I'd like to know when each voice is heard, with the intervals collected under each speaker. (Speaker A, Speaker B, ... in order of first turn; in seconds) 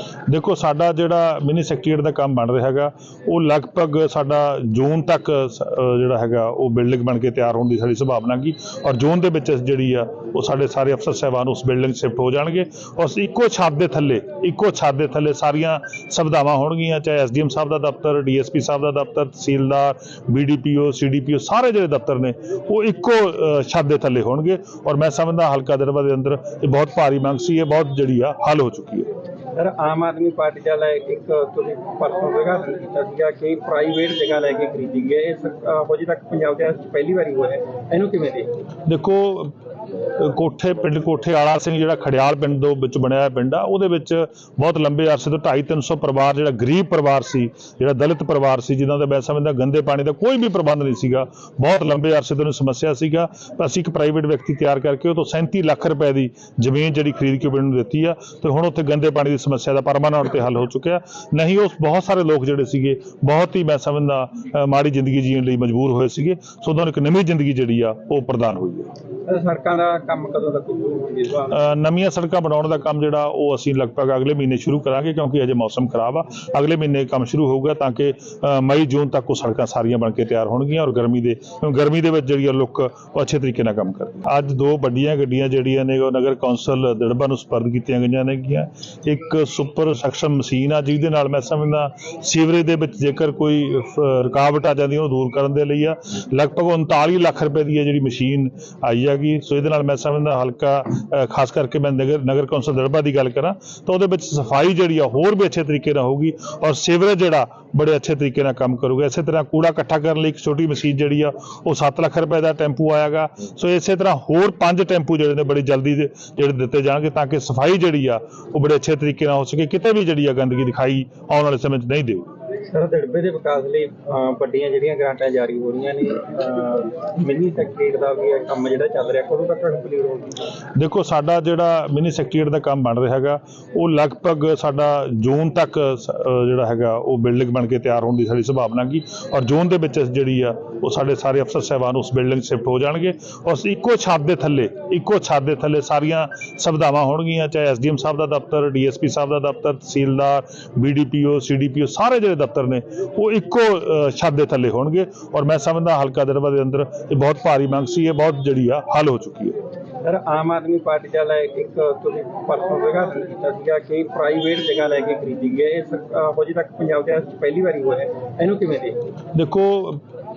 Speaker A: 0.3-29.1, 38.9-39.5, 40.1-68.9, 71.5-122.3, 130.8-159.6, 169.3-170.0
Speaker B: 29.5-38.5, 69.2-71.6, 122.6-130.3, 160.0-169.0